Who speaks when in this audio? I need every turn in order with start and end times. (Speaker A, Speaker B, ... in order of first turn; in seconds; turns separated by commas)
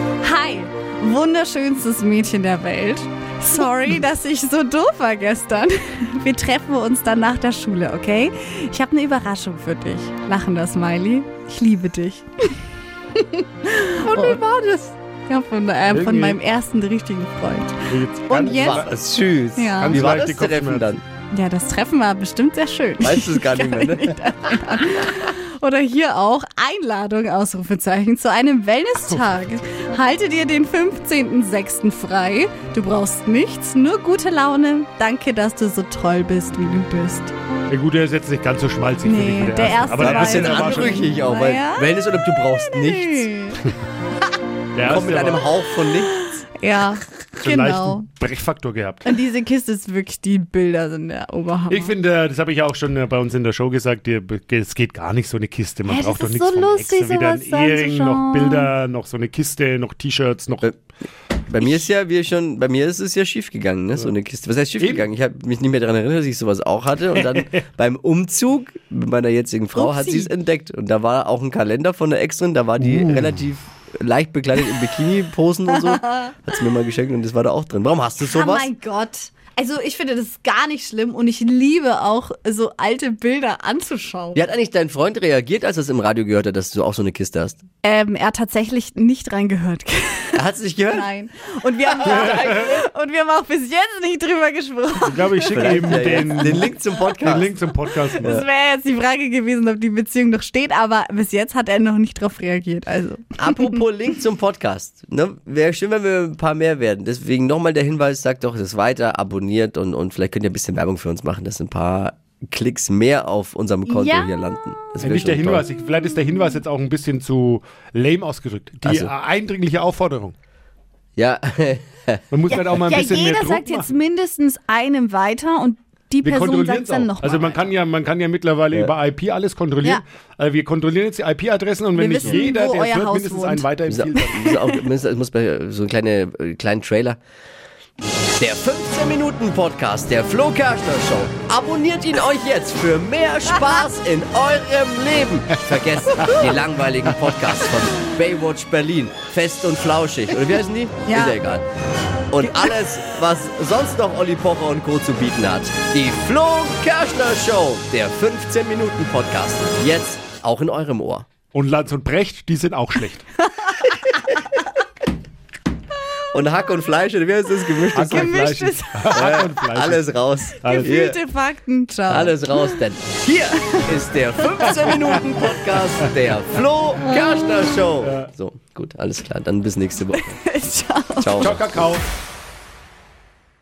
Speaker A: 0.2-12.6, Speaker A: 13.2-14.4, Speaker B: 14.0-14.9, Speaker A: 15.2-18.9, Speaker C: 15.9-16.4, Speaker C: 17.9-19.0, Speaker B: 18.5-21.0, Speaker A: 19.6-20.0, Speaker C: 19.7-21.0, Speaker A: 21.3-37.3, Speaker B: 23.0-24.9, Speaker C: 37.7-41.1, Speaker A: 39.0-41.9, Speaker B: 40.0-43.3, Speaker A: 42.8-43.6, Speaker C: 44.7-45.5, Speaker B: 44.8-46.3, Speaker A: 46.1-48.1, Speaker C: 47.4-49.1, Speaker A: 49.0-51.9, Speaker C: 51.7-60.7, Speaker A: 55.9-58.7, Speaker B: 61.5-78.7, Speaker C: 64.8-65.1, Speaker C: 67.1-67.5, Speaker A: 69.7-70.3, Speaker C: 72.8-73.4, Speaker A: 75.8-76.3, Speaker A: 78.2-84.4, Speaker B: 84.3-87.6, Speaker A: 87.8-95.8, Speaker B: 90.3-91.1, Speaker B: 91.9-92.8, Speaker C: 92.0-92.8, Speaker C: 95.0-98.4, Speaker B: 95.5-97.5, Speaker A: 98.2-103.7, Speaker B: 103.4-115.6, Speaker A: 113.9-114.3, Speaker C: 115.0-120.3, Speaker B: 118.8-119.1, Speaker B: 121.2-122.2, Speaker C: 122.3-123.9, Speaker A: 122.5-127.7, Speaker C: 126.2-134.6, Speaker A: 131.9-134.7, Speaker B: 133.9-137.2, Speaker B: 138.3-151.6, Speaker C: 145.7-146.5, Speaker A: 151.1-151.4, Speaker B: 152.3-161.3, Speaker A: 152.4-152.7, Speaker C: 161.5-163.2, Speaker A: 163.6-164.1, Speaker B: 166.3-168.4, Speaker C: 167.9-171.0, Speaker A: 168.1-169.2, Speaker B: 169.1-171.2, Speaker A: 170.6-172.8, Speaker B: 172.1-180.4, Speaker A: 174.7-174.9, Speaker C: 178.0-178.3, Speaker A: 180.1-181.5, Speaker B: 181.2-181.8, Speaker C: 181.4-182.1